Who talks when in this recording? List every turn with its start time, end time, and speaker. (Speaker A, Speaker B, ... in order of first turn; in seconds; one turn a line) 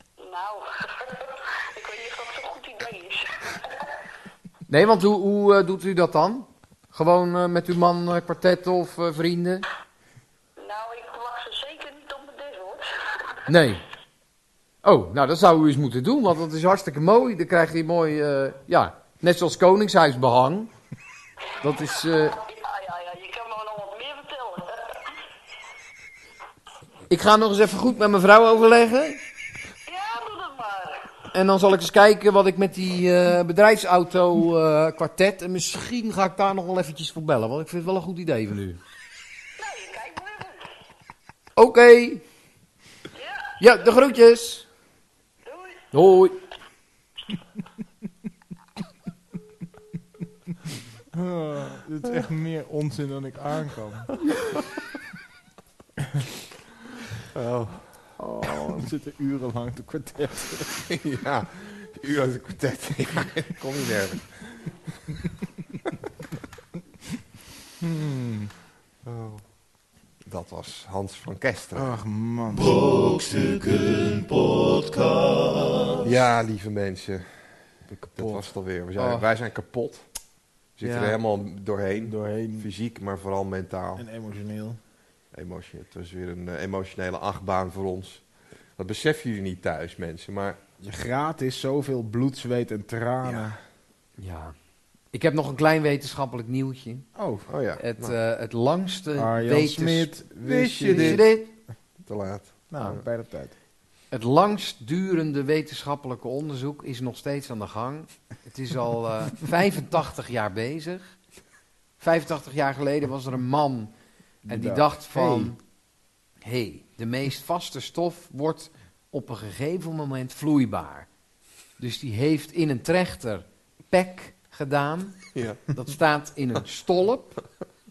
Speaker A: 0.2-3.9
Speaker B: 4.7-9.7
Speaker A: 10.6-13.4
Speaker B: 13.5-13.8
Speaker B: 14.8-20.7
Speaker B: 21.6-22.4
Speaker A: 21.8-25.0
Speaker B: 27.1-29.2
Speaker A: 29.9-31.1
Speaker B: 31.3-38.8
Speaker A: 39.6-40.6
Speaker B: 41.6-42.2
Speaker A: 43.2-43.5
Speaker B: 43.6-44.6
Speaker A: 45.5-45.8
Speaker B: 45.9-46.4
Speaker C: 51.1-54.1
Speaker D: 57.3-57.9
Speaker C: 58.2-60.9
Speaker D: 60.9-64.7
Speaker C: 67.8-68.5
Speaker D: 69.0-69.5
Speaker D: 70.2-71.9
Speaker C: 71.8-72.7
Speaker E: 72.5-76.1
Speaker D: 76.0-80.1
Speaker C: 77.9-78.4
Speaker B: 79.0-79.2
Speaker D: 80.8-84.0
Speaker B: 80.8-81.2
Speaker C: 82.0-82.7
Speaker C: 84.0-84.8
Speaker D: 85.3-88.2
Speaker D: 88.8-90.6
Speaker C: 90.8-93.6
Speaker D: 93.2-93.5
Speaker B: 94.2-94.5
Speaker B: 95.1-97.1
Speaker C: 97.2-97.5
Speaker D: 97.5-98.2
Speaker B: 97.8-100.1
Speaker C: 99.2-101.2
Speaker D: 100.4-101.2
Speaker B: 100.9-101.5
Speaker D: 102.1-103.0
Speaker C: 102.7-103.5
Speaker B: 104.1-111.2
Speaker B: 112.0-113.9
Speaker C: 114.5-115.5
Speaker B: 114.5-115.6
Speaker B: 116.4-121.1
Speaker B: 121.8-127.4
Speaker D: 125.3-125.7